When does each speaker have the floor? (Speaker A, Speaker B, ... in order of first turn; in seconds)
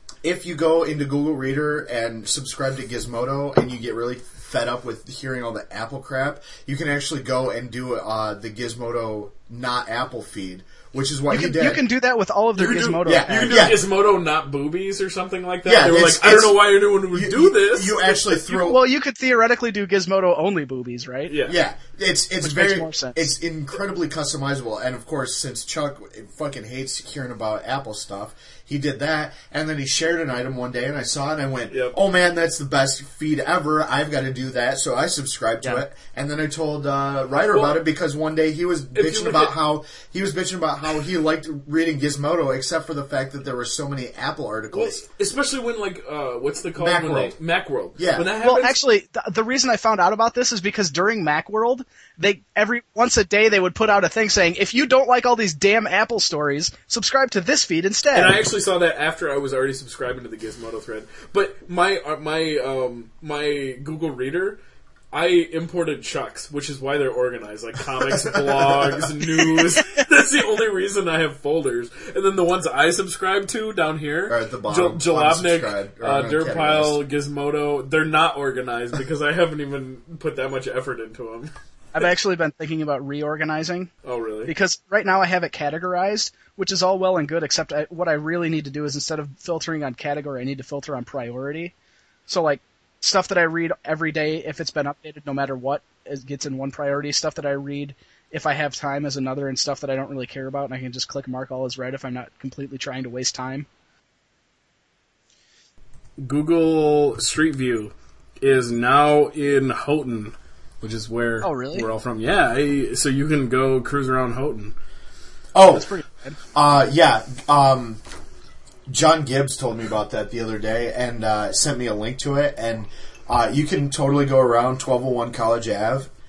Speaker A: 0.2-11.8, 13.0-13.8, 15.6-18.8, 21.4-45.0, 46.8-47.3, 48.0-48.3, 68.2-68.9, 74.3-77.0, 115.5-115.9, 116.5-118.0, 118.9-126.1
Speaker B: 11.3-13.7, 18.4-21.3, 22.4-23.3, 48.4-58.4, 81.9-83.9, 84.5-91.7, 92.3-103.7, 111.4-111.9, 115.7-116.4
Speaker C: 12.6-18.2, 21.3-21.6, 31.7-32.0, 37.5-37.8, 38.9-39.5, 44.7-48.8, 58.1-64.6, 65.1-81.5, 84.0-84.5, 106.2-114.7